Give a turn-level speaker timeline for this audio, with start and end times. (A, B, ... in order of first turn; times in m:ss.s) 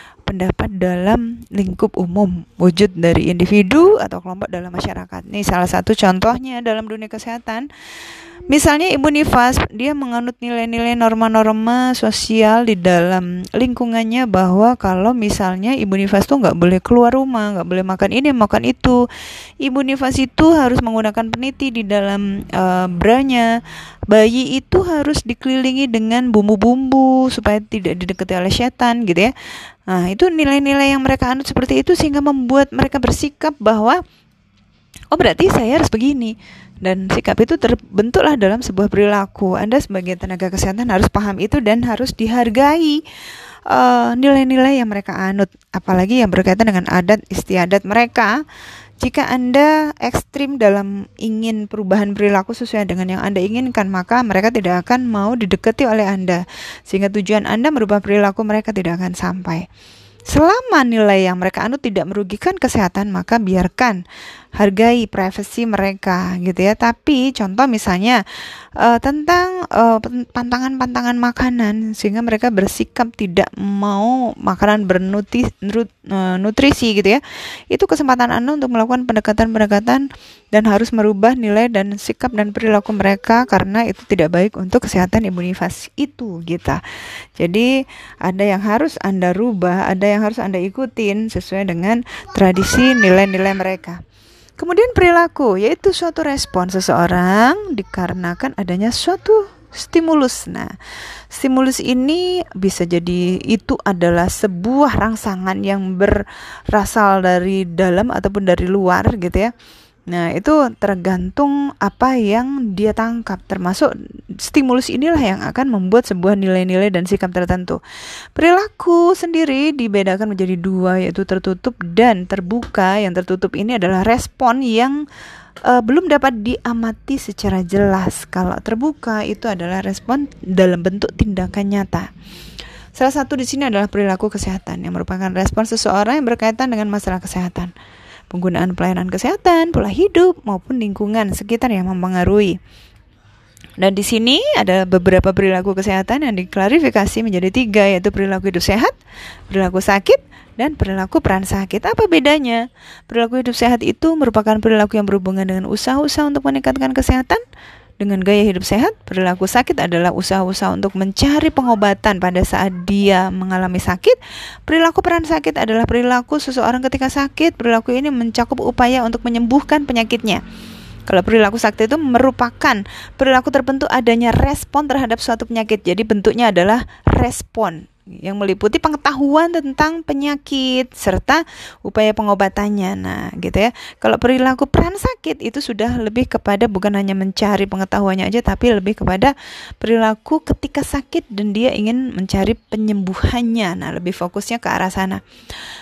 0:00.3-0:07.7 A
0:08.5-0:19.0 A
0:19.6-0:23.5 A
0:24.1-0:29.3 A
0:29.9-0:34.0 A
0:35.1-0:43.0 A
0:43.7-0:48.4 A
0:49.0-0:59.7 A
1:00.3-1:04.0 A
1:04.6-1:08.2 A
1:08.8-1:26.8 A
1:27.4-1:27.7 A
1:28.2-1:34.0 A
1:34.6-1:40.7 A
1:41.3-1:49.5 A
1:50.1-1:57.8 A
1:58.4-2:05.0 A
2:05.7-2:12.1 A
2:13.0-2:17.7 A
2:18.3-2:22.6 A
2:23.8-2:28.9 A
2:29.5-2:37.4 A
2:38.0-2:50.4 A
2:51.1-3:15.2 A